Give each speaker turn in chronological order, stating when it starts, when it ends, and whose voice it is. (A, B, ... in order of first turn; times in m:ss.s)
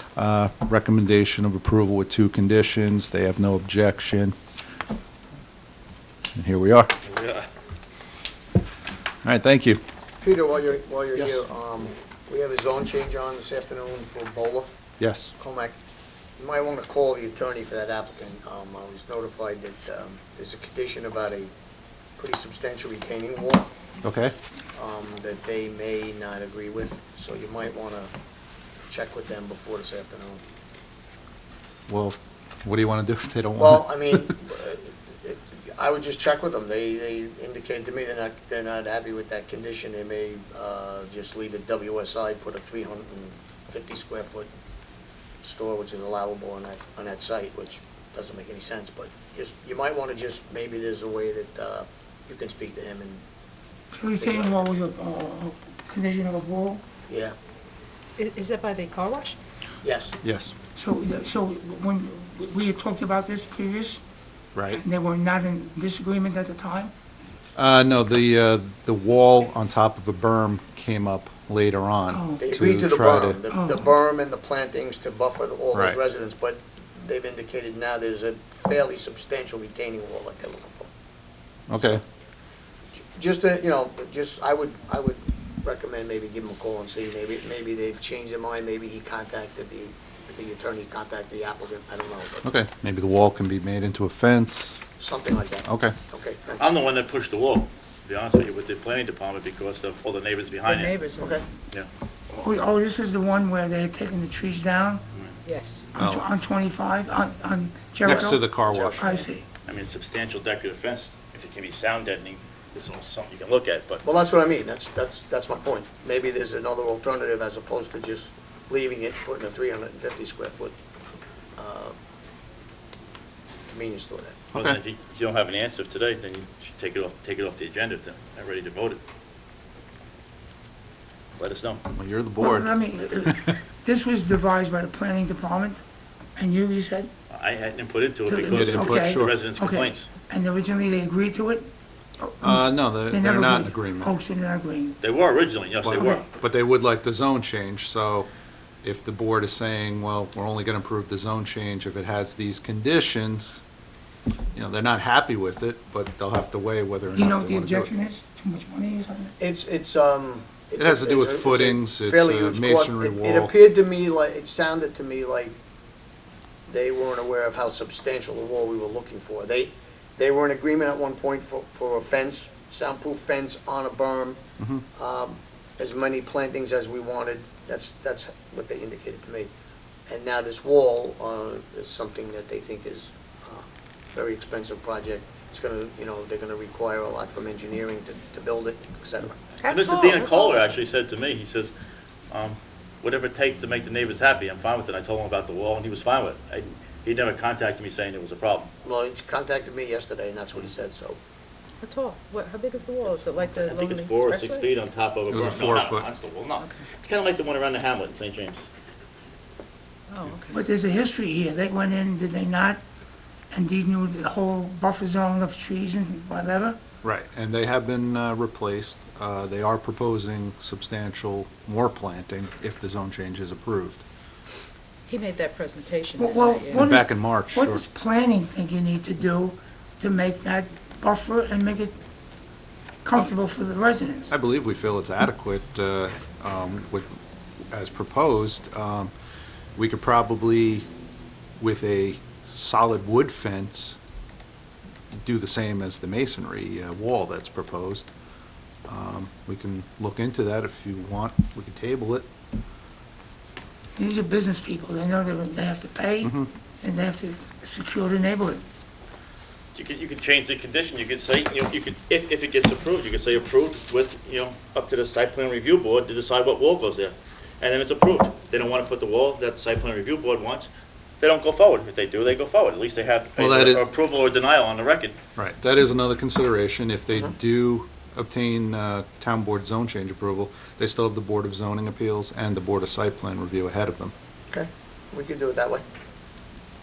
0:00.2-0:04.4 A
0:06.3-0:06.9 A
0:07.0-0:07.5 B
0:09.2-0:09.8 A
0:10.2-0:14.7 C
0:11.2-0:11.4 A
0:15.0-0:15.3 A
0:15.4-0:15.7 C
0:16.4-0:21.5 C
0:22.2-0:23.7 C
0:24.0-0:24.3 A
0:24.7-0:28.1 C
0:28.9-0:30.4 C
0:31.9-0:34.3 A
0:33.6-0:44.5 C
0:45.4-0:53.2 C
0:53.9-0:56.8 D
0:54.2-0:54.6 C
0:57.1-0:57.3 C
0:58.2-0:59.4 E
0:59.8-1:00.2 C
1:00.2-1:00.5 A
1:00.8-1:04.0 D
1:04.5-1:04.8 A
1:04.7-1:06.9 D
1:07.6-1:13.4 A
1:12.1-1:12.5 D
1:12.4-1:20.9 C
1:13.5-1:13.8 D
1:15.7-1:16.0 A
1:21.7-1:22.0 A
1:21.8-1:22.0 C
1:23.1-1:32.5 C
1:32.4-1:34.8 A
1:35.0-1:36.7 C
1:35.7-1:36.0 A
1:36.6-1:41.0 B
1:40.6-1:41.4 E
1:42.3-1:45.0 D
1:45.4-1:45.9 E
1:45.9-1:46.2 A
1:46.0-1:49.4 D
1:48.0-1:49.1 A
1:48.0-1:49.2 C
1:49.6-1:54.0 B
1:54.0-2:00.7 C
2:01.6-2:01.9 C
2:03.7-2:04.4 C
2:04.5-2:09.0 B
2:11.4-2:11.8 B
2:11.9-2:12.7 A
2:12.4-2:15.8 D
2:13.2-2:13.5 A
2:16.4-2:17.1 D
2:17.3-2:20.1 B
2:18.3-2:21.7 D
2:18.5-2:19.4 A
2:22.2-2:25.0 D
2:22.4-2:24.1 A
2:25.0-2:26.3 B
2:25.8-2:28.3 A
2:25.9-2:26.2 D
2:28.8-2:33.6 A
2:34.5-2:37.9 A
2:37.1-2:39.3 D
2:39.4-2:45.6 C
2:40.8-2:43.5 A
2:46.7-2:54.4 C
2:54.9-2:59.5 C
3:00.1-3:09.6 C
3:09.6-3:10.7 E
3:09.6-3:11.7 B
3:12.3-3:18.7 B
3:18.8-3:21.2 C
3:21.8-3:24.7 E
3:23.6-3:28.6 B
3:25.3-3:26.1 A
3:26.6-3:26.8 E
3:30.1-3:30.7 E
3:30.5-3:32.8 D
3:33.5-3:36.8 D
3:37.0-3:44.0 A
3:45.1-3:46.9 E
3:46.2-3:52.0 D
3:46.7-3:47.8 A
3:53.0-3:54.3 D
3:54.3-3:57.2 A
3:57.7-3:59.1 A
3:59.8-4:00.8 A
4:01.6-4:04.0 A
4:05.2-4:08.1 A
4:08.9-4:12.3 A
4:14.0-4:18.6 D
4:16.2-4:16.5 A
4:19.7-4:30.7 B
4:31.2-4:35.2 B
4:33.4-4:33.8 A
4:35.4-4:44.1 A
4:44.5-4:45.8 C